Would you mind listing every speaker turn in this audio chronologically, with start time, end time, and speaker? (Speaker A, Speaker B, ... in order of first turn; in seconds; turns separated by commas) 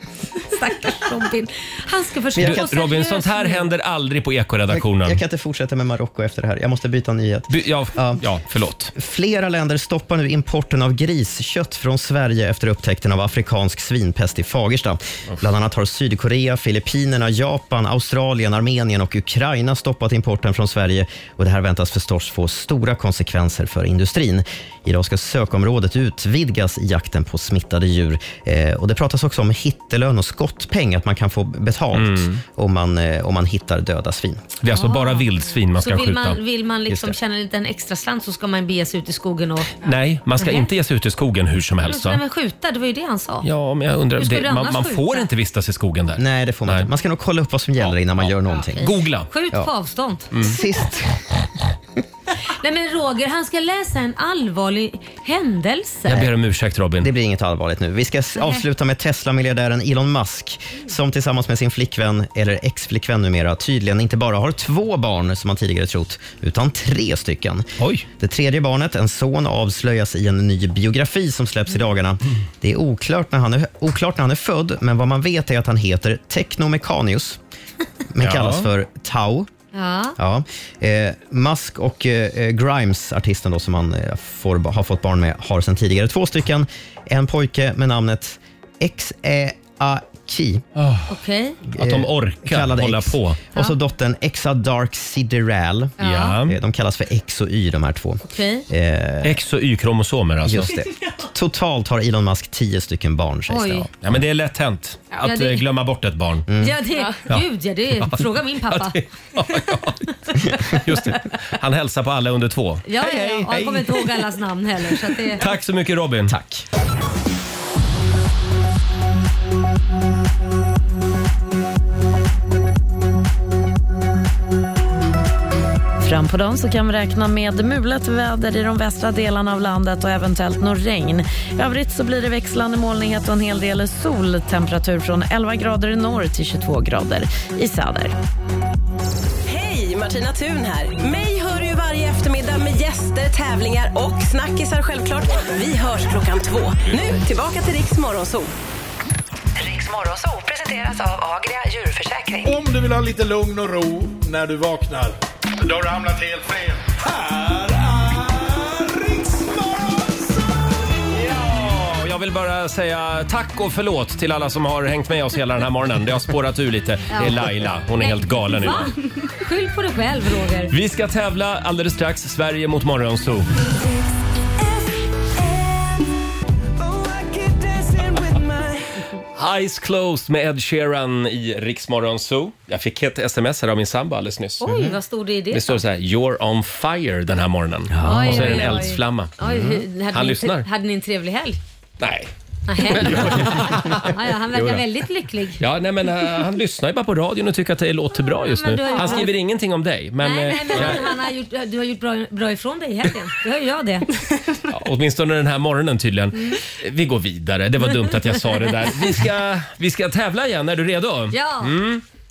Speaker A: 0.4-3.7, Speaker B: 2.3-2.6, Speaker C: 2.4-5.2, Speaker B: 4.7-8.2, Speaker C: 7.5-8.9, Speaker B: 8.9-34.4, Speaker C: 31.9-32.4, Speaker C: 34.6-36.4, Speaker A: 34.7-39.7, Speaker B: 36.9-37.1, Speaker C: 39.8-42.2, Speaker A: 40.4-40.7, Speaker A: 41.8-43.5, Speaker C: 43.4-46.9, Speaker A: 44.2-45.3, Speaker B: 46.1-49.0, Speaker C: 47.8-49.3, Speaker A: 49.3-50.3, Speaker C: 50.3-50.6, Speaker B: 50.3-51.3, Speaker A: 52.5-56.3, Speaker C: 56.0-57.1, Speaker B: 57.0-77.4, Speaker C: 67.8-68.0, Speaker B: 78.1-79.5, Speaker C: 78.2-78.7, Speaker A: 79.7-80.2, Speaker B: 80.2-90.6, Speaker C: 90.8-91.1, Speaker A: 91.1-91.6, Speaker C: 91.7-93.4, Speaker B: 91.7-99.4, Speaker A: 96.0-96.4, Speaker C: 96.0-96.6, Speaker A: 98.2-98.6, Speaker C: 99.2-100.7, Speaker B: 100.4-104.1, Speaker A: 103.5-103.9, Speaker C: 104.0-106.5, Speaker A: 105.2-105.6, Speaker B: 106.5-106.8, Speaker A: 106.6-109.0, Speaker C: 108.0-110.0, Speaker A: 110.5-110.8, Speaker C: 110.5-114.2, Speaker A: 112.8-115.5, Speaker C: 115.3-116.3, Speaker B: 116.3-116.7, Speaker D: 126.0-138.1, Speaker E: 139.4-148.5, Speaker F: 149.6-152.6, Speaker G: 152.4-160.6, Speaker C: 161.1-168.9, Speaker A: 167.1-170.7, Speaker C: 170.7-173.5, Speaker G: 176.9-178.7, Speaker C: 179.3-184.6, Speaker A: 184.6-185.8, Speaker B: 184.6-185.0, Speaker C: 185.5-189.4, Speaker B: 187.9-188.8, Speaker A: 188.0-191.6, Speaker B: 189.4-189.8, Speaker C: 190.1-190.7, Speaker C: 192.0-192.3, Speaker A: 192.7-195.6, Speaker C: 192.8-194.8, Speaker C: 195.6-201.1, Speaker A: 198.5-199.3, Speaker A: 200.2-204.1, Speaker C: 204.7-212.0, Speaker A: 208.1-208.8, Speaker A: 211.3-211.7